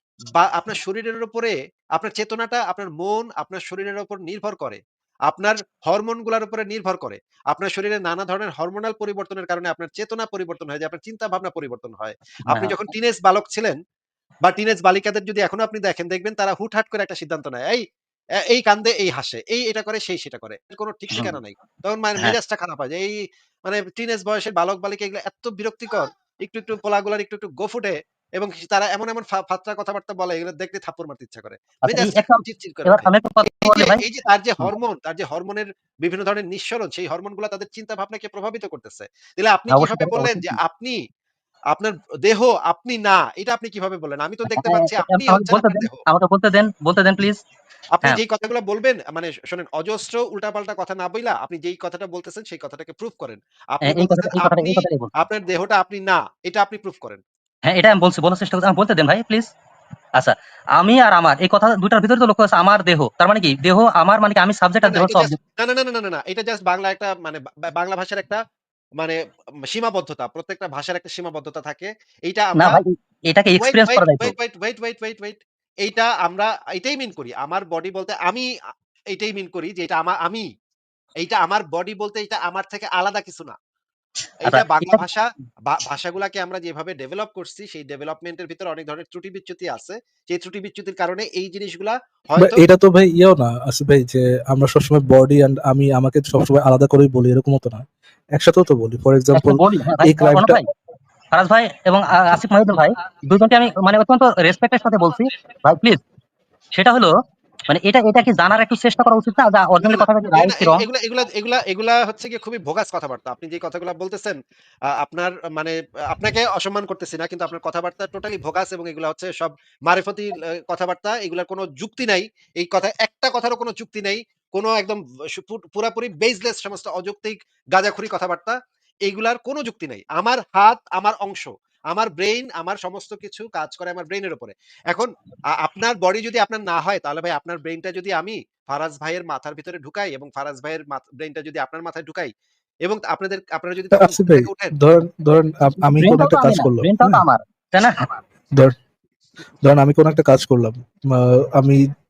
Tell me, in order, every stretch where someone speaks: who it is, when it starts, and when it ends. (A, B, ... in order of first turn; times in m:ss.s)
0:00.3-0:13.8 A
0:12.5-0:12.9 B
0:14.4-0:17.8 A
0:18.5-0:23.1 A
0:23.7-0:41.0 A
0:31.9-0:34.0 B
0:39.7-0:40.6 B
0:41.7-0:46.0 A
0:44.5-0:47.4 B
0:47.9-0:57.2 A
0:53.8-0:55.1 B
0:57.7-0:59.5 B
1:00.2-1:05.4 B
1:04.8-1:08.4 A
1:09.0-1:12.8 A
1:12.6-1:14.3 B
1:13.6-1:18.5 A
1:19.1-1:20.5 A
1:21.2-1:23.5 A
1:24.4-1:32.6 A
1:24.5-1:25.0 B
1:32.4-1:37.8 C
1:38.3-1:40.6 C
1:39.3-1:40.7 B
1:41.3-1:46.0 B
1:46.7-1:47.1 B
1:47.7-1:50.8 B
1:49.8-1:54.4 A
1:54.9-2:22.3 A
2:22.8-2:24.7 A
2:23.9-2:27.2 C
2:25.9-2:28.1 B
2:29.6-2:31.8 C